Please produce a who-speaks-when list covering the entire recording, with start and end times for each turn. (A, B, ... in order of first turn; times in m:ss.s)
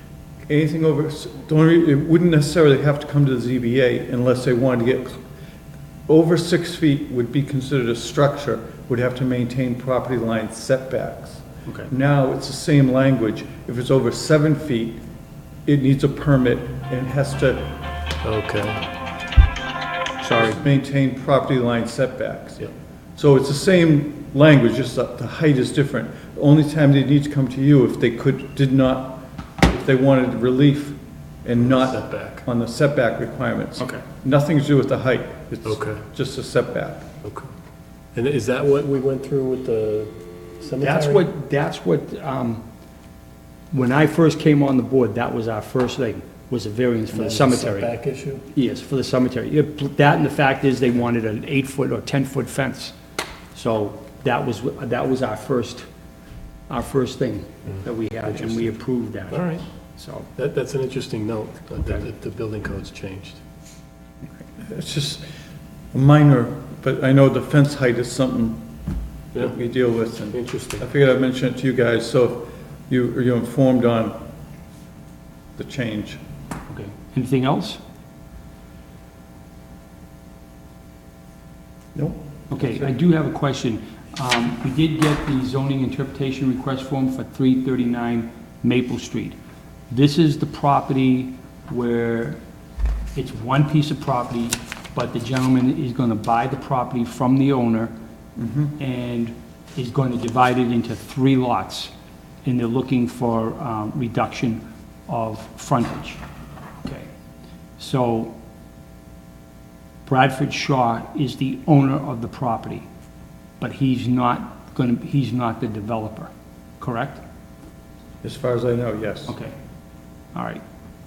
0:00.5-0:05.2 A
0:06.1-0:15.0 A
0:15.7-0:17.7 A
0:18.2-0:18.8 B
0:20.2-0:20.6 C
0:20.4-0:37.1 A
0:31.6-0:32.4 B
0:33.8-0:34.0 C
0:35.6-0:36.0 B
0:37.2-0:37.5 B
0:38.1-0:41.3 B
0:40.8-0:42.6 C
0:43.7-0:47.9 C
0:47.1-0:48.4 B
0:48.5-0:53.0 C
0:53.6-0:55.9 C
0:56.7-1:00.3 C
0:58.4-0:58.7 B
0:59.3-0:59.6 B
1:00.4-1:03.4 B
1:04.6-1:05.2 A
1:05.9-1:08.6 A
1:09.4-1:14.2 A
1:10.3-1:10.8 B
1:15.6-1:16.2 A
1:16.7-1:17.8 C
1:22.0-1:22.9 A
1:22.5-1:29.4 C
1:29.9-1:32.4 C
1:33.2-1:37.9 C
1:38.4-1:38.8 A
1:38.8-1:41.9 C
1:42.4-1:46.2 C
1:46.8-1:47.1 C
1:47.8-1:48.4 C
1:50.0-1:52.9 C
1:53.6-1:57.2 C
1:58.2-1:59.4 A
1:59.3-1:59.6 C
2:00.3-2:00.6 C